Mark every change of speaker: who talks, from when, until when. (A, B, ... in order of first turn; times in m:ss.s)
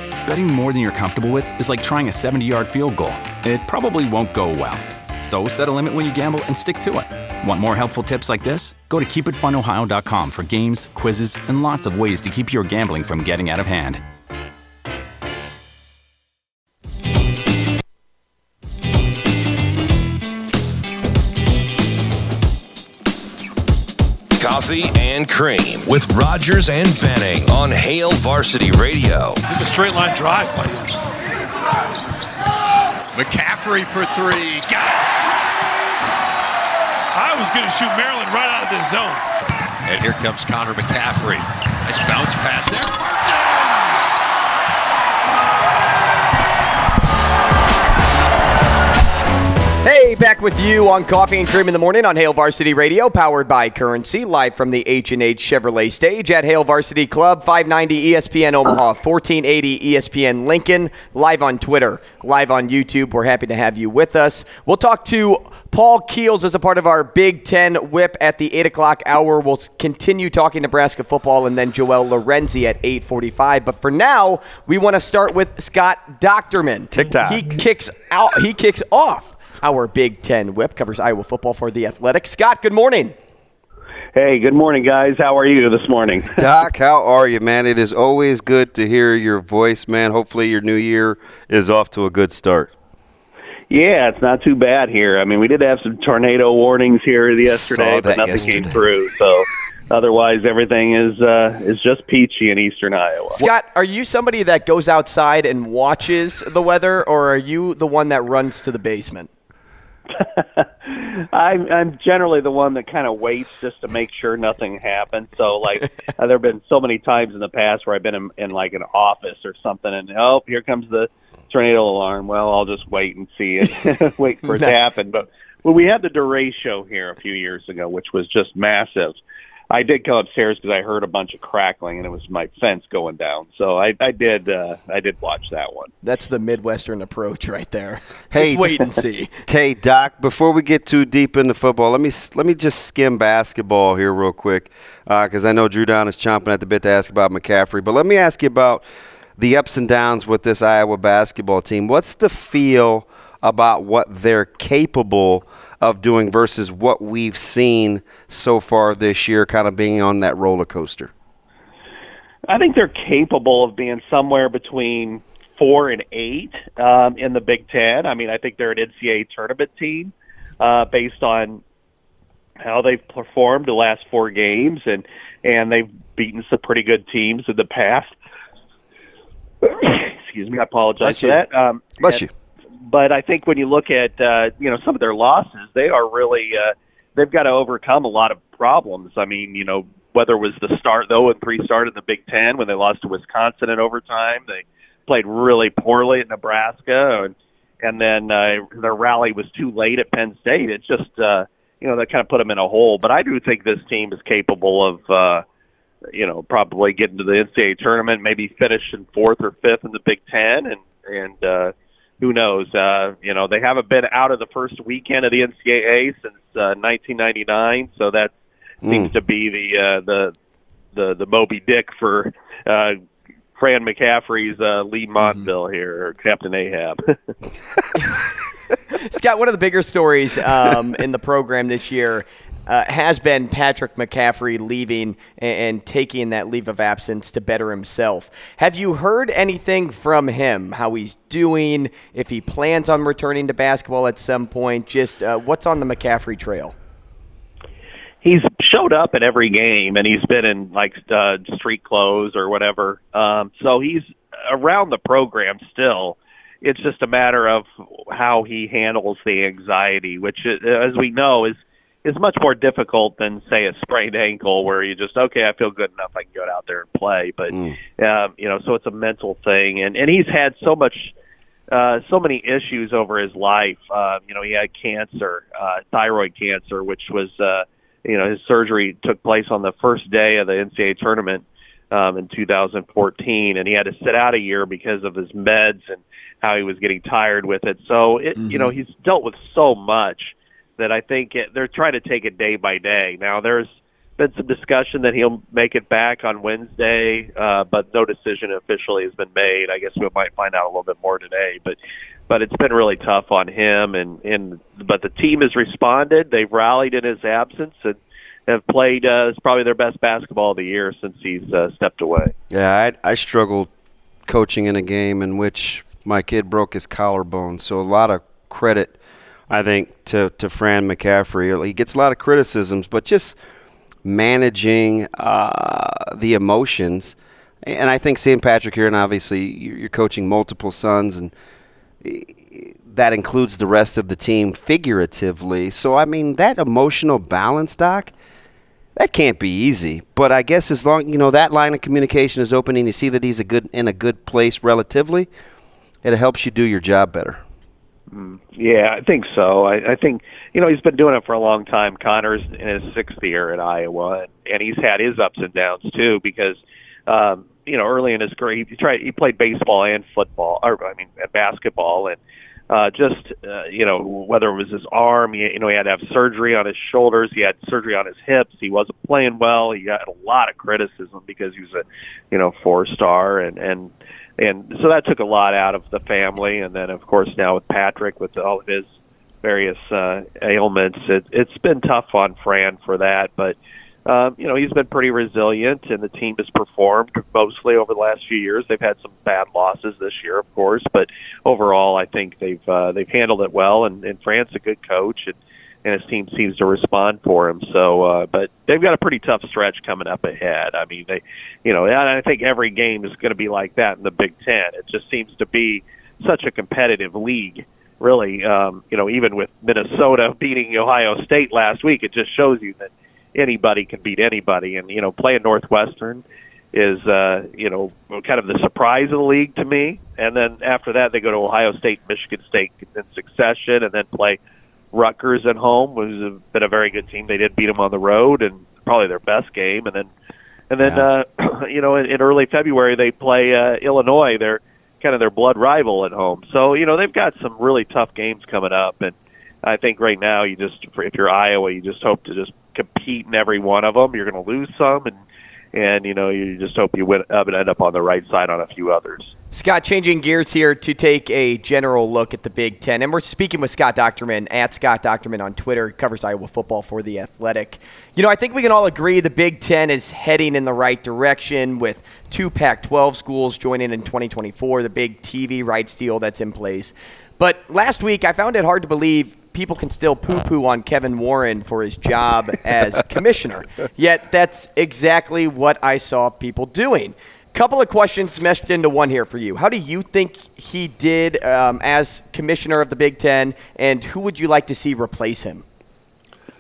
0:00.2-0:14.0 A
0:24.4-0:29.4 B
0:29.5-0:30.9 C
0:33.2-0:34.7 D
0:37.1-0:39.2 C
0:39.9-0:42.8 B
0:39.9-0:41.2 D
0:41.9-0:43.4 D
0:49.8-1:23.1 E
1:16.9-1:17.5 F
1:24.1-1:26.4 G
1:26.4-1:32.7 F
1:33.7-1:43.4 G
1:37.4-1:38.8 F
1:43.3-1:49.3 E
1:50.1-2:15.9 G
2:16.0-2:19.3 E
2:18.3-2:18.7 F
2:19.5-2:28.9 F
2:29.4-2:41.1 F
2:42.5-2:51.6 G
2:52.6-2:58.2 G
2:59.6-3:02.2 G
3:01.0-3:01.4 E
3:02.0-3:02.3 F
3:02.8-3:25.4 G
3:26.1-3:40.4 G
3:38.8-3:39.1 F
3:41.0-3:43.0 G
3:43.6-3:47.2 G
3:49.0-4:06.8 E
4:08.2-4:31.1 G
4:31.7-5:01.8 G
5:02.3-5:12.3 G
5:12.5-5:13.7 F
5:14.3-5:19.0 F
5:19.5-5:23.4 F
5:24.0-5:31.3 F
5:32.0-5:38.1 F
5:39.0-5:45.3 F
5:46.0-5:47.4 F
5:48.1-6:02.2 G
6:02.7-6:18.9 G
6:19.4-7:04.4 G
7:04.9-7:10.1 G
7:10.7-7:25.2 G
7:10.8-7:11.1 F
7:25.7-7:29.3 G
7:29.5-8:05.6 E